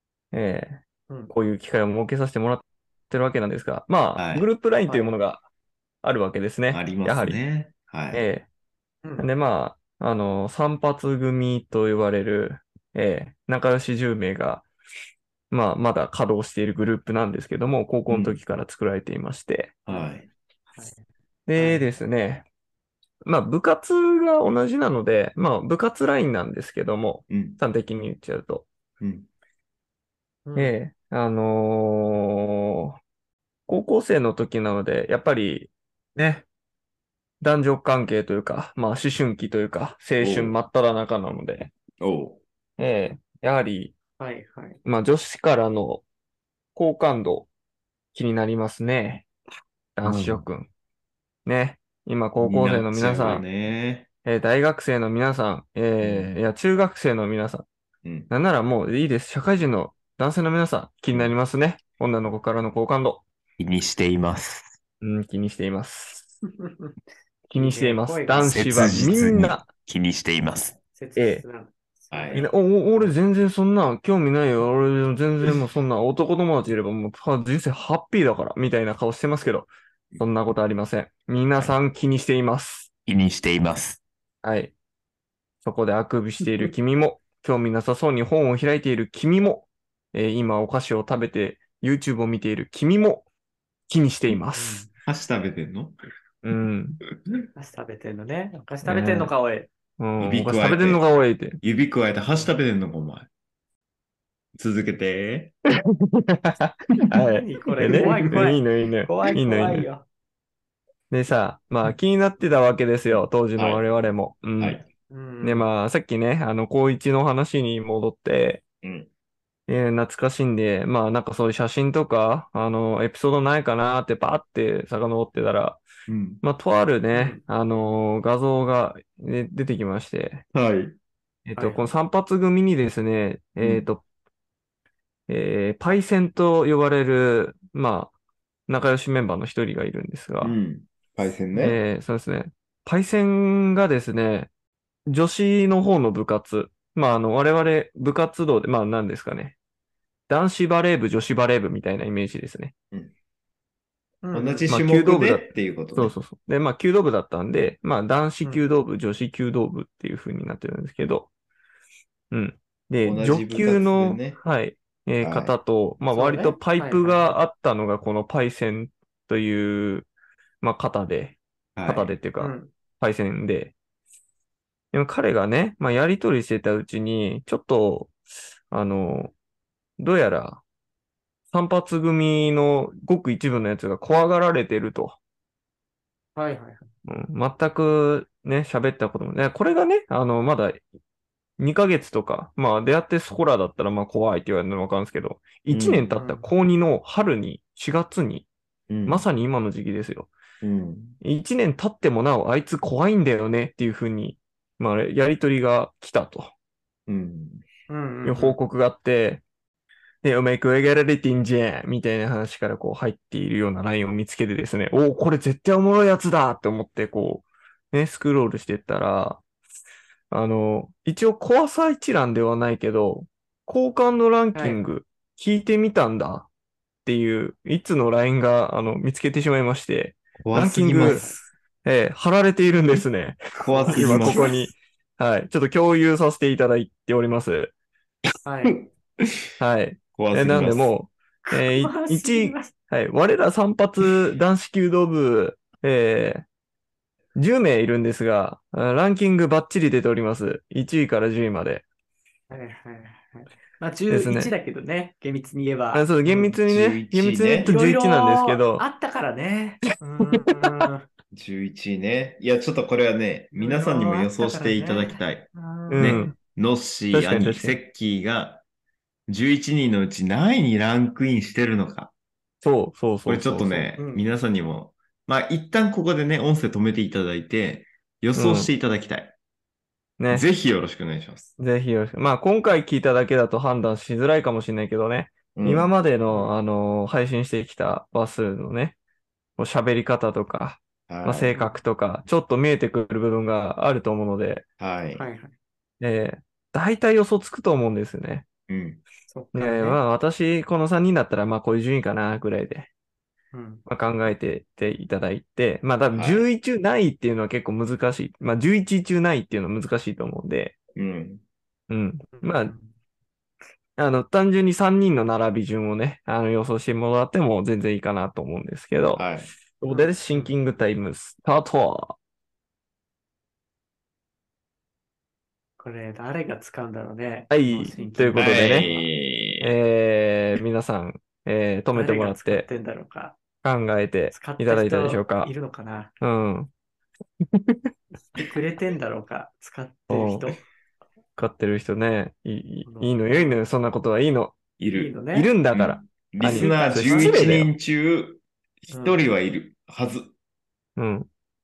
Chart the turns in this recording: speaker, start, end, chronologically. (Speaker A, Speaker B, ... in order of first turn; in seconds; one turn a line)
Speaker A: 0.3-5.4
Speaker B: 4.2-4.5
Speaker A: 6.0-7.4
Speaker B: 6.7-8.2
Speaker A: 8.1-8.4
Speaker A: 9.2-14.7
Speaker A: 15.5-19.8
Speaker B: 18.1-18.4
Speaker B: 19.9-20.2
Speaker C: 19.9-20.2
Speaker C: 20.7-21.0
Speaker A: 21.5-22.4
Speaker C: 21.6-21.9
Speaker A: 23.2-28.7
Speaker B: 27.3-27.6
Speaker B: 29.0-29.3
Speaker C: 30.4-30.7
Speaker A: 30.6-33.0
Speaker A: 33.7-36.4
Speaker A: 37.4-41.7
Speaker B: 40.2-40.6
Speaker B: 42.0-42.4
Speaker A: 42.8-43.9
Speaker C: 44.2-44.8
Speaker A: 44.8-46.0
Speaker A: 46.7-47.5
Speaker A: 48.1-49.2
Speaker A: 50.0-50.7
Speaker B: 50.0-50.5
Speaker A: 51.5-53.4
Speaker B: 52.4-54.1
Speaker A: 54.2-57.6
Speaker B: 56.0-56.3
Speaker B: 58.0-58.3
Speaker A: 58.3-63.2
Speaker B: 63.6-64.8
Speaker A: 65.0-66.3
Speaker A: 67.5-69.7
Speaker C: 67.5-69.0
Speaker B: 68.4-70.8
Speaker C: 70.9-73.1
Speaker A: 71.2-71.4
Speaker B: 72.1-72.5
Speaker A: 72.3-82.9
Speaker B: 81.5-81.8
Speaker B: 83.0-84.0
Speaker A: 84.4-84.7
Speaker A: 85.6-93.2
Speaker A: 93.9-94.8
Speaker C: 94.5-94.9
Speaker B: 95.0-96.0
Speaker A: 96.4-97.0
Speaker C: 97.5-99.7
Speaker A: 98.8-99.3
Speaker A: 100.0-101.6
Speaker B: 100.2-101.0
Speaker B: 101.6-103.3
Speaker B: 104.5-105.5
Speaker A: 105.9-109.9
Speaker C: 107.2-110.0
Speaker B: 107.9-108.5
Speaker A: 111.1-114.8
Speaker B: 113.1-113.8
Speaker B: 114.6-114.9
Speaker C: 115.1-115.7
Speaker A: 115.4-118.6
Speaker B: 118.8-119.1
Speaker A: 119.7-125.8
Speaker B: 126.1-126.4
Speaker A: 126.4-130.4
Speaker C: 127.1-127.4
Speaker B: 130.5-131.0
Speaker A: 131.4-134.0
Speaker B: 133.6-133.9
Speaker A: 135.3-138.1
Speaker A: 138.7-140.6
Speaker B: 140.4-141.8
Speaker A: 141.6-144.5
Speaker A: 145.1-149.5
Speaker A: 150.3-152.7
Speaker C: 154.2-154.7
Speaker B: 154.3-156.2
Speaker A: 154.7-161.3
Speaker A: 162.3-170.1
Speaker B: 163.0-164.4
Speaker B: 165.2-165.5
Speaker C: 166.1-167.3
Speaker A: 170.6-173.7
Speaker B: 171.8-172.1
Speaker C: 172.4-172.7
Speaker A: 174.9-178.1
Speaker A: 178.7-179.3
Speaker A: 180.0-180.6
Speaker A: 181.5-185.2
Speaker C: 186.3-186.9
Speaker A: 187.1-190.8
Speaker A: 191.6-198.5
Speaker B: 195.7-196.2
Speaker C: 196.2-196.5
Speaker B: 198.9-199.2
Speaker A: 199.0-200.3
Speaker B: 200.6-201.2
Speaker A: 201.2-206.5
Speaker B: 207.1-207.7
Speaker C: 207.9-208.6
Speaker A: 208.2-209.4
Speaker A: 210.2-219.4
Speaker A: 220.3-226.5
Speaker C: 224.5-224.8
Speaker A: 227.0-237.7
Speaker B: 230.4-231.4
Speaker C: 230.9-231.4
Speaker B: 233.5-234.7
Speaker C: 233.6-234.6
Speaker C: 238.4-238.8
Speaker B: 238.8-239.3
Speaker A: 239.6-246.4
Speaker B: 240.1-240.9
Speaker C: 241.5-242.7
Speaker A: 247.3-251.8
Speaker C: 252.5-256.6
Speaker A: 254.1-254.5
Speaker A: 255.9-258.8
Speaker B: 256.6-257.7
Speaker C: 257.6-261.1
Speaker B: 261.3-268.6
Speaker C: 263.5-266.3
Speaker A: 265.9-266.3
Speaker A: 267.1-267.8
Speaker B: 269.3-272.1
Speaker A: 272.6-273.9
Speaker B: 273.2-279.3
Speaker C: 274.0-274.2
Speaker A: 278.3-278.7
Speaker A: 280.2-280.4
Speaker B: 280.3-281.6
Speaker A: 281.6-288.9
Speaker B: 285.5-286.5
Speaker A: 289.6-294.6
Speaker B: 291.1-291.6
Speaker B: 294.8-295.2
Speaker C: 295.1-295.5
Speaker A: 296.0-298.5
Speaker B: 298.7-299.0
Speaker C: 299.3-300.0
Speaker A: 299.5-302.9
Speaker C: 303.5-303.8
Speaker A: 303.9-310.7
Speaker B: 306.1-306.4
Speaker B: 310.9-311.4
Speaker A: 311.9-312.7
Speaker C: 312.3-312.9
Speaker A: 314.0-319.3
Speaker B: 319.1-319.5
Speaker A: 319.8-322.1
Speaker C: 319.9-320.5
Speaker C: 325.8-329.0
Speaker A: 327.5-328.9
Speaker B: 328.4-329.7
Speaker A: 329.6-332.6
Speaker C: 331.9-333.4
Speaker A: 333.6-335.5
Speaker C: 334.3-336.1
Speaker A: 336.2-336.7
Speaker A: 337.4-337.9
Speaker C: 338.3-340.6
Speaker A: 340.1-340.5
Speaker A: 341.4-344.6
Speaker C: 342.8-343.6
Speaker B: 344.8-345.2
Speaker C: 344.9-345.5
Speaker A: 345.3-347.7
Speaker B: 345.7-350.3
Speaker C: 346.4-347.6
Speaker C: 348.9-349.2
Speaker A: 350.9-351.3